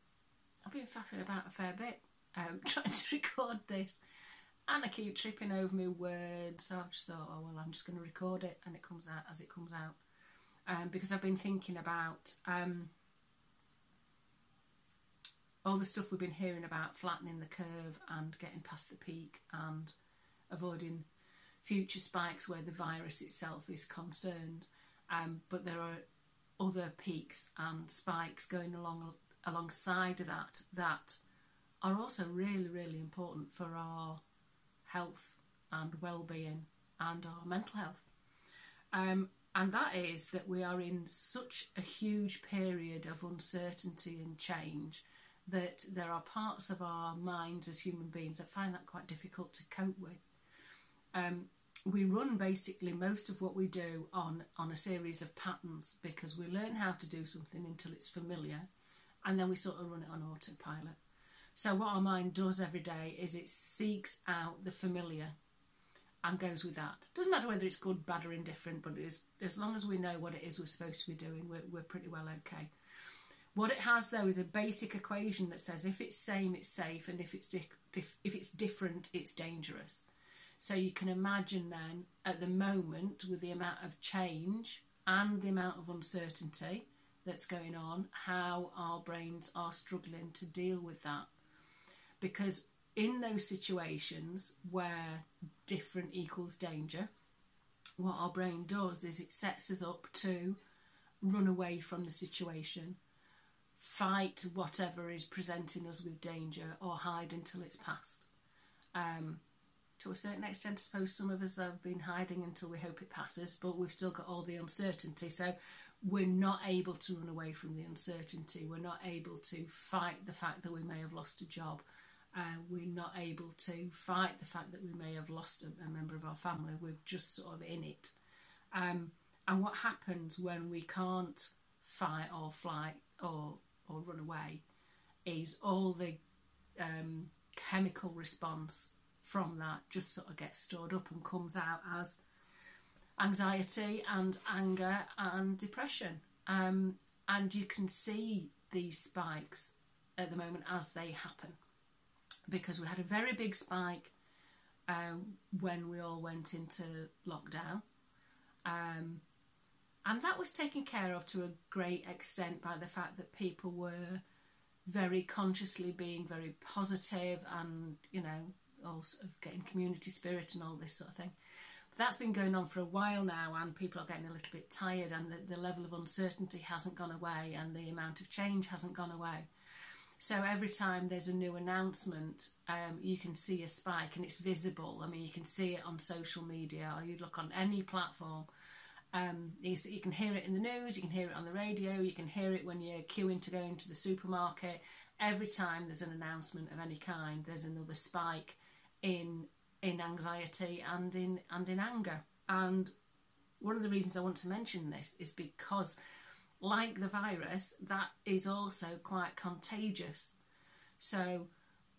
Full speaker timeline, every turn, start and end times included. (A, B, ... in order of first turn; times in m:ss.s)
0:00.6-0:04.0 A
0:04.7-0:10.0 A
0:10.6-0:12.9 A
0:15.6-0:19.9 A
0:20.5-0:21.1 A
0:21.6-0:26.0 A
0:26.6-0:31.2 A
0:31.8-0:34.2 A
0:34.8-0:38.0 A
0:38.9-0:50.2 A
0:51.1-0:58.7 A
0:59.2-1:01.0 A
1:01.5-1:05.3 A
1:06.2-1:12.7 A
1:13.5-1:20.1 A
1:20.6-1:31.3 A
1:32.2-1:37.1 A
1:38.0-1:40.6 A
1:41.2-1:43.0 A
1:43.8-1:48.3 A
1:48.9-1:49.4 A
1:50.0-2:01.8 A
2:02.3-2:08.1 A
2:08.7-2:14.6 A
2:15.2-2:16.2 A
2:16.8-2:22.2 A
2:23.2-2:31.6 A
2:32.5-2:34.1 A
2:34.9-2:37.8 A
2:38.6-2:39.2 A
2:40.0-2:44.2 A
2:44.8-2:51.3 A
2:51.9-2:59.5 A
3:00.2-3:08.5 A
3:09.1-3:22.9 A
3:23.6-3:26.0 A
3:26.6-3:30.4 A
3:31.0-3:31.5 A